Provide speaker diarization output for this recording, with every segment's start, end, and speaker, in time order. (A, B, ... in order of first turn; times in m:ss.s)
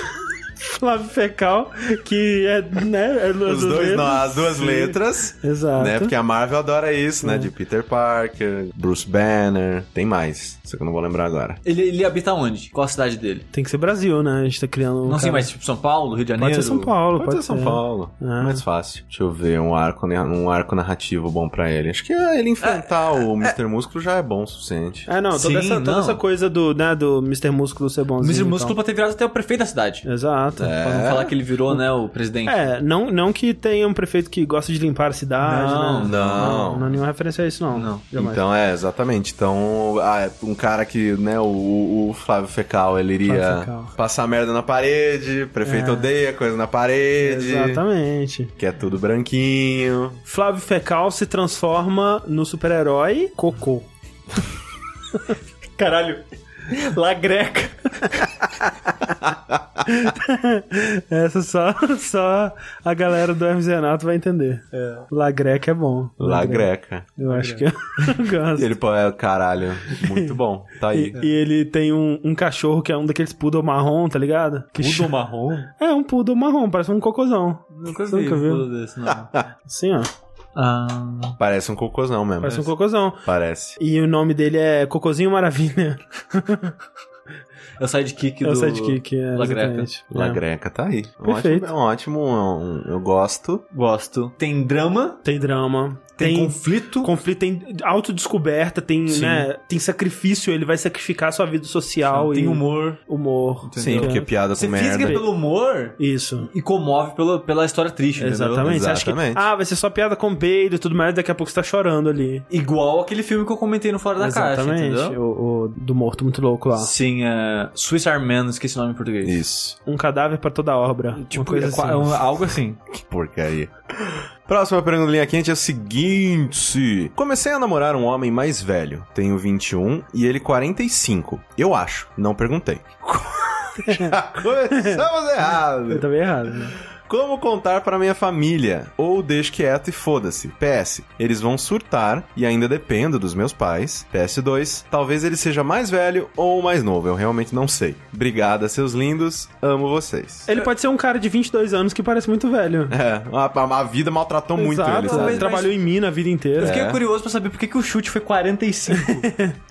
0:00.6-0:06.1 A
0:03.4-0:11.6 B
0:07.2-0:07.5 A
0:11.6-0:13.4 C
0:13.5-0:15.5 A
0:15.1-0:16.9 C
0:16.4-0:18.6 A
0:17.2-0:25.1 B
0:22.6-0:23.5 C
0:25.1-0:28.7 A
0:25.3-0:26.2 C
0:28.2-0:30.0 C
0:30.0-0:30.8 A
0:30.6-0:31.3 B
0:30.8-0:32.7 C
0:32.4-0:38.4 A
0:35.4-0:36.5 C
0:36.0-0:36.9 B
0:37.7-0:38.0 C
0:38.1-0:47.8 B
0:43.2-0:43.9 A
0:45.6-0:46.1 A
0:47.2-0:48.5 A
0:48.6-0:50.2 B
0:50.2-0:53.9 A
0:55.8-0:58.3 C
0:59.0-0:59.8 B
0:59.8-1:08.7 A
1:04.7-1:05.0 C
1:06.2-1:07.1 B
1:07.2-1:07.7 C
1:08.6-1:11.2 B
1:10.0-1:10.3 A
1:10.9-1:15.1 A
1:14.8-1:15.7 C
1:15.8-1:18.6 A
1:17.7-1:19.3 C
1:19.1-1:19.5 B
1:19.7-1:20.1 A
1:20.6-1:21.4 C
1:21.4-1:22.7 B
1:22.4-1:23.2 A
1:23.2-1:23.8 B
1:23.8-1:26.8 A
1:27.8-1:29.9 C
1:28.4-1:30.4 A
1:30.1-1:33.6 B
1:31.2-1:31.7 A
1:33.7-1:35.2 C
1:35.2-1:44.3 A
1:36.2-1:37.1 C
1:39.1-1:39.5 C
1:42.1-1:43.0 C
1:43.6-1:48.7 C
1:43.8-1:45.2 B
1:45.0-1:45.3 A
1:46.0-1:46.5 A
1:48.2-1:52.4 A
1:48.6-1:49.4 B
1:52.5-1:55.2 C
1:54.2-1:56.9 A
1:56.7-1:59.4 C
1:59.2-1:59.8 B
1:59.8-2:02.2 A
2:01.1-2:02.8 C
2:02.9-2:16.0 B
2:13.8-2:15.0 A
2:15.9-2:16.7 A
2:17.1-2:30.5 B
2:30.5-2:32.9 A
2:32.9-2:35.5 B
2:34.6-2:36.8 A
2:35.0-2:35.8 C
2:36.6-2:39.3 C
2:36.6-2:37.0 B
2:38.9-2:39.6 A